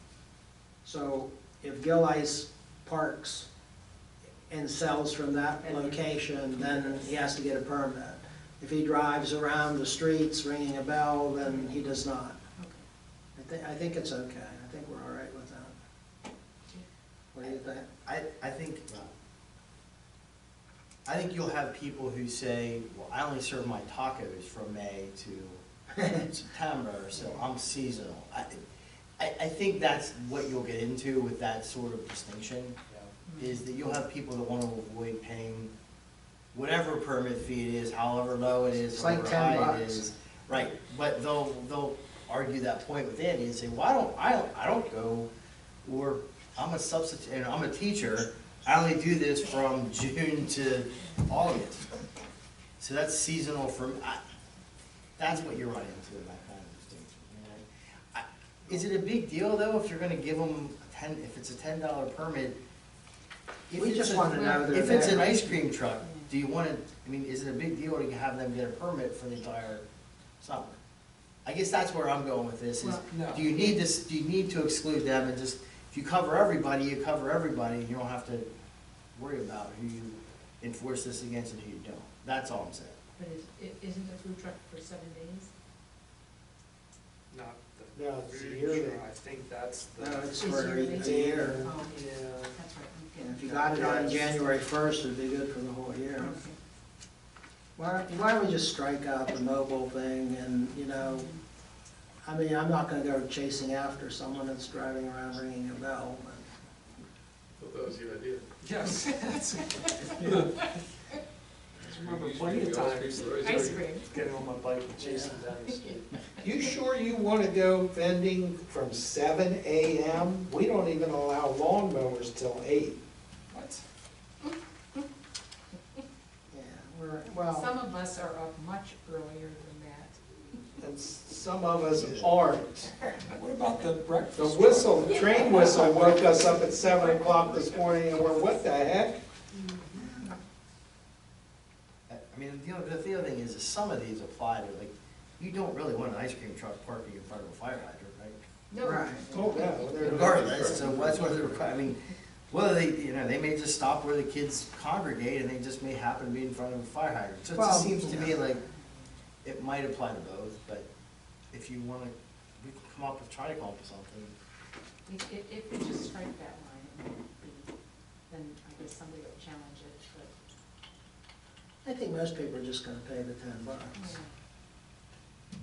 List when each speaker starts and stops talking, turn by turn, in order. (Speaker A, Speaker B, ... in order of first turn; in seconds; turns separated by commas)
Speaker A: 0.8-3.5, Speaker A: 4.5-12.4, Speaker B: 5.6-7.1, Speaker B: 11.4-11.8, Speaker B: 12.6-12.8, Speaker A: 13.3-15.7, Speaker A: 17.3-17.9, Speaker C: 17.4-19.1, Speaker C: 21.1-28.6, Speaker C: 29.2-32.8, Speaker C: 33.4-35.7, Speaker C: 36.5-45.3, Speaker A: 38.9-40.0, Speaker C: 45.8-51.9, Speaker C: 52.8-54.2, Speaker C: 55.2-62.6, Speaker C: 63.7-69.8, Speaker A: 63.8-65.3, Speaker B: 64.3-66.3, Speaker C: 70.4-70.8, Speaker C: 71.4-78.5, Speaker B: 72.8-73.8, Speaker C: 79.1-83.0, Speaker B: 83.2-85.5, Speaker D: 87.3-90.5, Speaker E: 87.9-89.0, Speaker A: 90.0-91.7, Speaker B: 90.3-94.0, Speaker E: 91.0-91.7, Speaker D: 91.8-92.6, Speaker A: 93.2-96.3, Speaker E: 93.8-94.2, Speaker B: 96.2-96.5, Speaker A: 97.8-101.3, Speaker B: 101.0-101.4, Speaker A: 102.2-106.5, Speaker F: 107.6-108.5, Speaker D: 108.6-110.5, Speaker B: 109.2-110.5, Speaker F: 111.8-114.0, Speaker D: 111.9-116.1, Speaker B: 113.4-114.1, Speaker E: 116.4-123.0, Speaker D: 123.5-123.8, Speaker A: 126.5-127.7, Speaker B: 127.5-130.6, Speaker E: 130.8-132.9, Speaker D: 133.3-136.0, Speaker E: 134.3-139.2, Speaker B: 135.1-138.7, Speaker B: 139.5-140.4, Speaker A: 139.9-140.3, Speaker C: 142.1-148.4, Speaker B: 148.7-151.3, Speaker A: 148.8-149.6, Speaker E: 149.3-151.6, Speaker C: 150.0-158.6, Speaker A: 157.5-158.4, Speaker B: 158.4-159.1, Speaker C: 159.4-160.8, Speaker C: 161.5-164.3, Speaker B: 165.1-167.7, Speaker B: 168.3-170.3, Speaker A: 171.8-174.2, Speaker B: 173.9-174.3